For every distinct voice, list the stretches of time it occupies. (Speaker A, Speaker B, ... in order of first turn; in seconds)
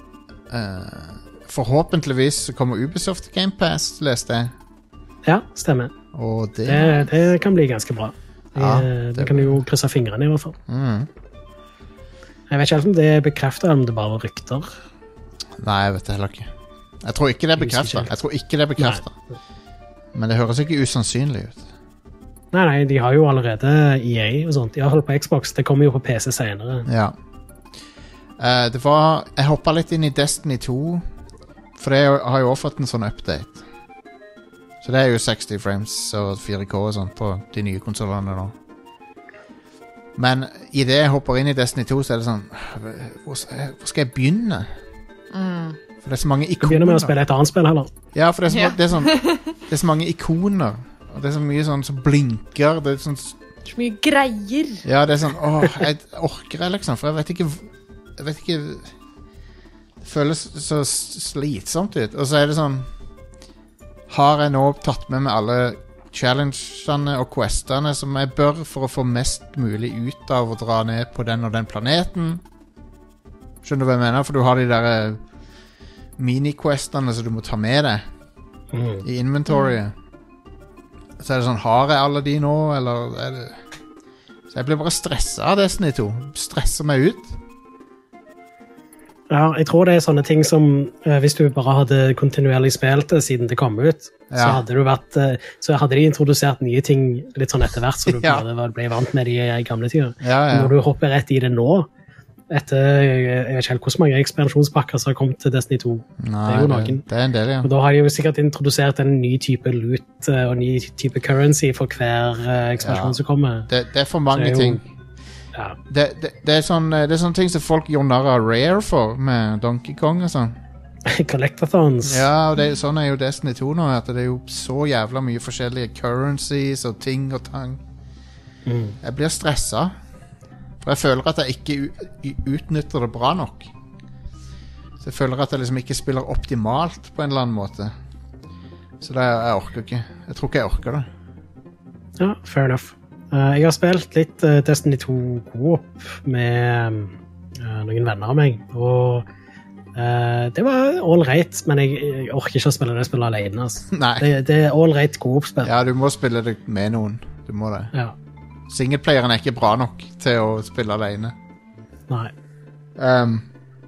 Speaker A: 0.5-4.5, 6.1-7.1, 8.6-9.6, 10.7-11.1, 15.6-16.5, 17.0-19.1, 20.1-21.6, 26.9-27.1, 28.4-31.0, 31.8-33.6, 34.8-38.5, 40.1-44.7, 46.0-47.1, 48.1-53.4, 54.8-58.9, 60.0-62.9, 64.1-72.4, 73.6-75.2, 76.2-78.0, 79.0-79.9, 81.2-83.6, 84.5-87.4, 94.3-94.6, 98.1-98.5, 100.2-100.7, 106.2-107.7, 112.8-114.8, 115.9-120.6, 122.0-127.8, 129.0-129.9, 130.8-133.7, 135.0-137.9, 139.0-141.1, 153.9-154.3, 155.6-157.9, 158.7-161.3, 162.9-163.4
Speaker B: 5.2-5.9, 6.7-10.5, 12.5-14.7, 17.6-18.1, 18.8-19.0, 22.5-26.9, 46.6-47.9, 78.7-79.0, 89.3-101.9, 102.5-107.0, 107.6-113.7, 114.3-114.8, 121.0-122.2, 128.7-129.0, 142.2-149.2, 149.9-155.7
Speaker C: 45.3-45.8, 48.5-49.5, 53.6-54.9